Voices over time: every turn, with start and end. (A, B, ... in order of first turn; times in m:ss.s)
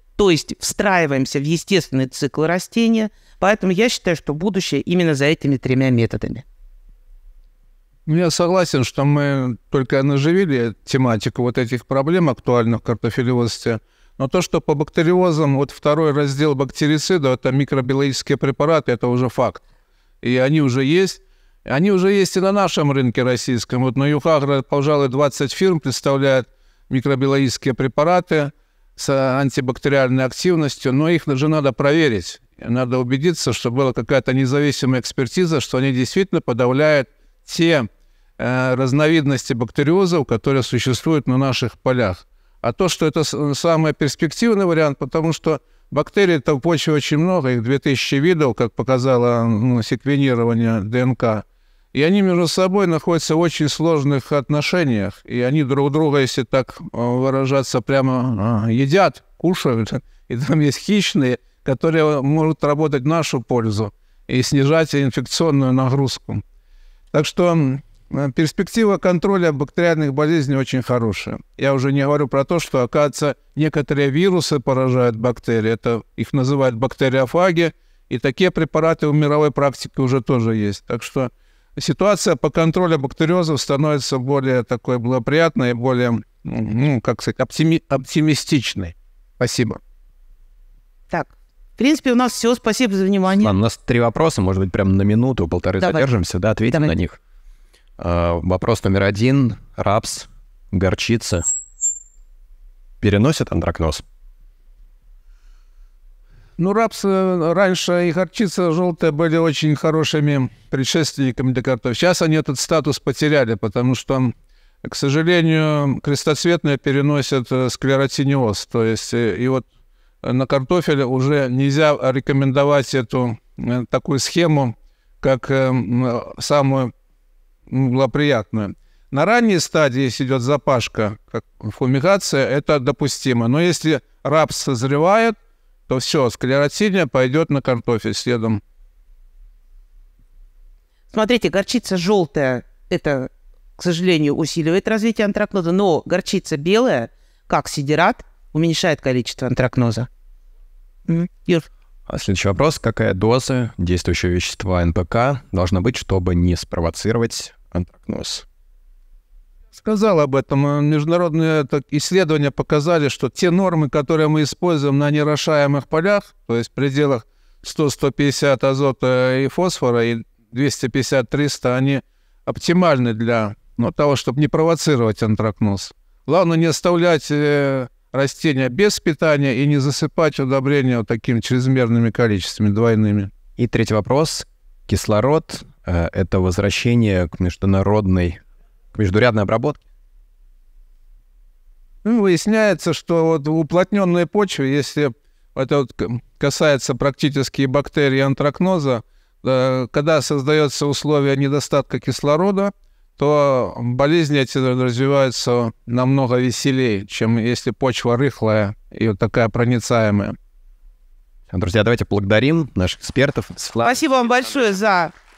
0:00.2-0:06.4 A
0:08.0-0:19.6 B
0:20.2-1:06.4 B
1:07.1-1:29.8 B
1:31.1-1:33.5 A
1:33.4-1:37.2 C
1:35.8-1:36.1 A
1:38.0-1:41.4 C
1:43.0-1:44.0 C
1:46.6-1:59.6 B
2:00.2-2:06.9 B
2:07.7-2:15.4 B
2:15.9-2:18.6 B
2:21.1-2:30.1 A
2:31.1-2:31.7 A
2:32.1-2:38.4 C
2:39.8-3:03.3 B
3:03.6-3:08.4 C
3:08.9-3:09.8 C
3:12.0-3:30.4 B
3:31.5-3:34.0 C
3:33.8-3:35.1 A